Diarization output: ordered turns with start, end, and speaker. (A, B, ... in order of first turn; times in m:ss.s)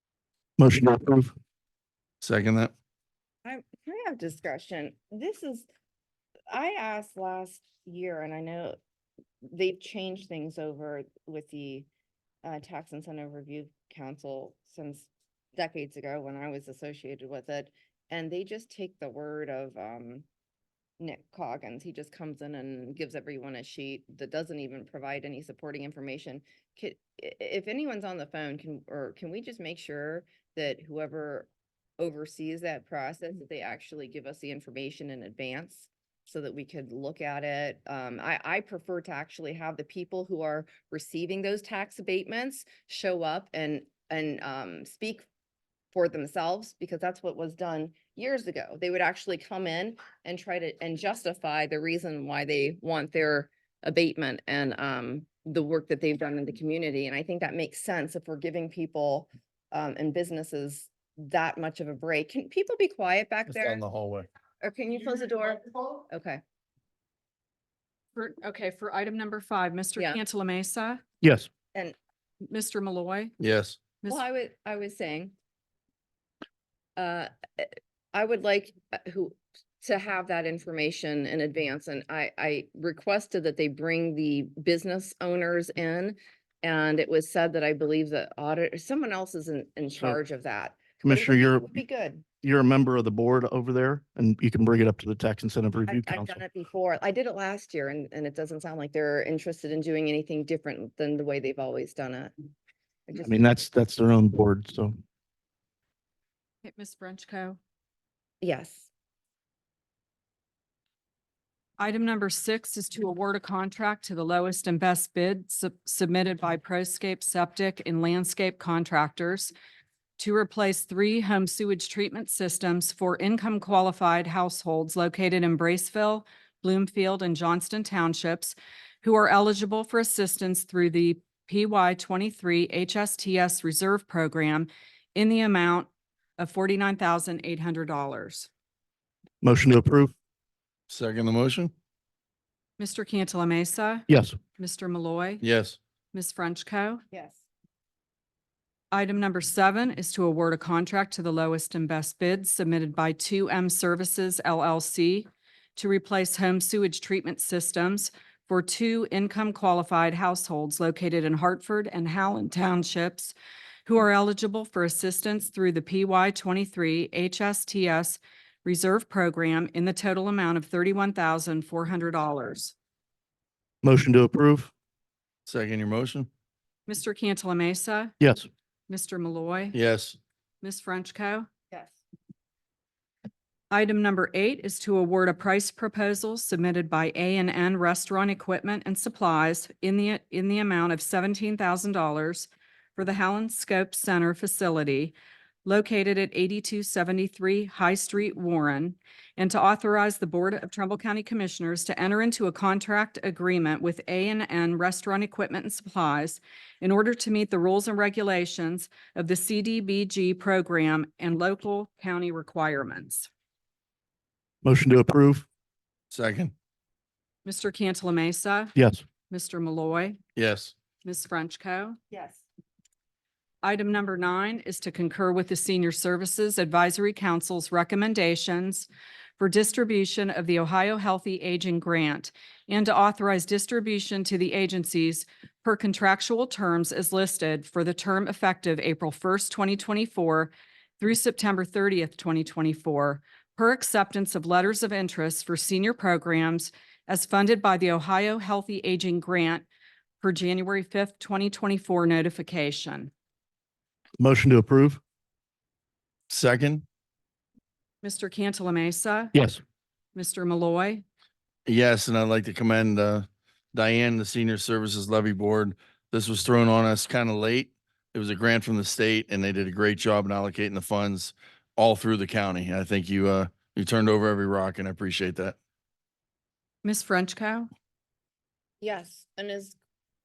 0:00.6-0:01.3 A
0:02.2-0:02.7 B
0:03.4-0:05.7 C
0:06.5-0:08.8 C
0:09.4-0:11.9 C
0:12.4-0:20.3 C
0:21.0-0:45.3 C
0:45.9-1:03.8 C
1:03.5-1:04.3 B
1:04.6-1:06.4 C
1:08.2-1:11.0 D
1:11.2-1:11.5 A
1:12.5-1:13.3 D
1:13.4-1:13.8 B
1:14.1-1:15.3 C
1:17.0-1:32.3 C
1:31.0-1:31.7 A
1:32.4-1:36.4 A
1:35.9-1:42.3 C
1:43.1-1:43.3 C
1:43.2-1:45.0 A
1:46.6-1:47.6 D
1:48.4-1:48.9 C
1:51.8-1:59.5 D
2:00.2-2:18.5 D
2:19.4-2:20.1 A
2:20.9-2:21.7 B
2:22.8-2:24.1 D
2:24.1-2:24.4 A
2:24.6-2:25.4 D
2:25.4-2:25.8 B
2:26.1-2:27.0 D
2:27.1-2:27.4 C
2:28.9-2:43.4 D
2:43.9-2:52.8 D
2:53.8-2:54.7 A
2:55.5-2:56.3 B
2:56.9-2:58.1 D
2:58.2-2:58.5 A
2:58.9-2:59.8 D
2:59.7-3:00.2 B
3:00.6-3:01.5 D
3:01.7-3:02.0 C
3:03.7-3:33.3 D
3:34.6-3:35.5 A
3:36.1-3:36.5 B
3:37.4-3:38.7 D
3:38.8-3:39.0 A
3:39.3-3:40.2 D
3:40.4-3:40.7 B
3:41.0-3:42.0 D
3:42.1-3:42.4 C
3:43.6-4:09.6 D
4:10.2-4:13.1 D
4:14.2-4:15.0 A
4:16.3-4:16.8 B
4:18.0-4:19.3 D
4:19.3-4:19.6 A
4:20.2-4:21.0 D
4:21.7-4:35.6 B
4:36.8-4:37.7 D
4:38.8-4:39.8 C